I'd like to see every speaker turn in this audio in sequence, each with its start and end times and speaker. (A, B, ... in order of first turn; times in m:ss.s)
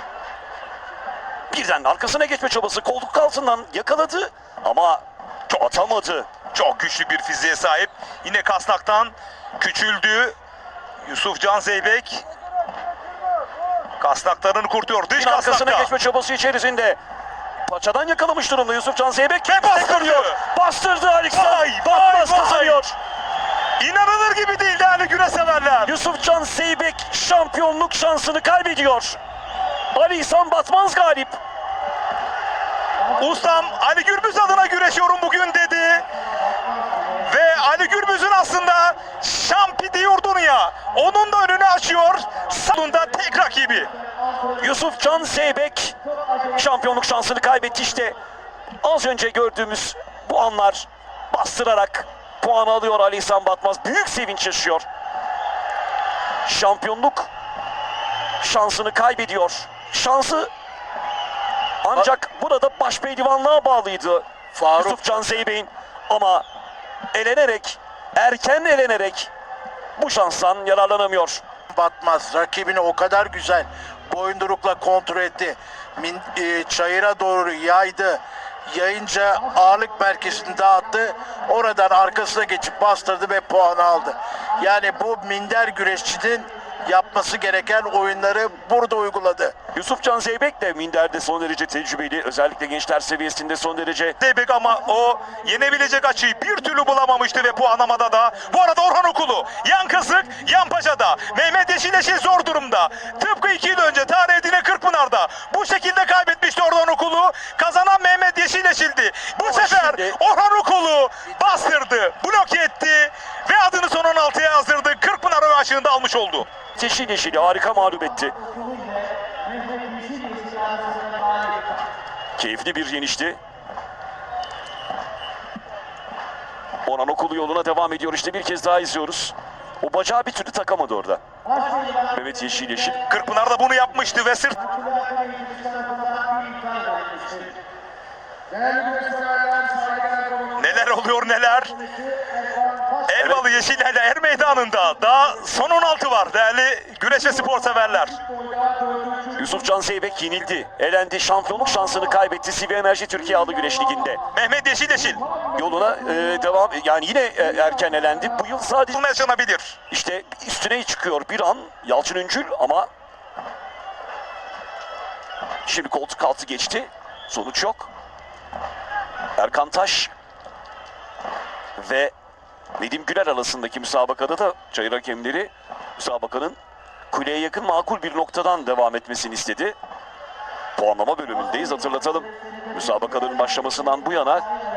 0:01.5-0:06.3 A
0:06.5-0:10.4 B
0:11.0-0:12.2 B
0:14.0-0:15.9 B
0:15.2-0:17.0 A
0:17.7-0:23.0 A
0:19.5-0:20.4 B
0:21.3-0:22.8 B
0:23.8-0:25.9 B
0:25.8-0:29.2 A
0:29.9-0:31.4 A
0:33.2-0:36.0 B
0:37.2-0:43.9 B
0:44.6-0:46.0 A
0:46.6-0:48.2 A
0:48.8-0:54.9 A
0:56.4-0:57.3 A
0:58.4-1:00.5 A
1:01.8-1:06.5 A
1:04.5-1:05.4 C
1:07.1-1:09.3 A
1:10.0-1:11.4 A
1:11.7-1:29.6 C
1:29.7-1:34.2 A
1:34.2-1:56.5 B
1:49.4-1:50.2 A
1:56.8-1:58.4 A
2:02.4-2:03.4 A
2:06.8-2:11.2 A
2:12.1-2:13.0 A
2:13.1-2:14.8 B
2:20.6-2:21.8 B
2:23.1-2:28.2 B
2:29.4-2:34.2 A
2:34.3-2:35.2 B
2:35.5-2:39.2 A
2:38.9-2:39.8 B
2:39.9-2:42.9 A
2:45.6-2:47.9 A
2:49.4-2:50.1 A
2:51.8-2:52.1 A
2:52.8-2:56.6 A
2:57.1-2:59.8 A
3:00.8-3:04.5 A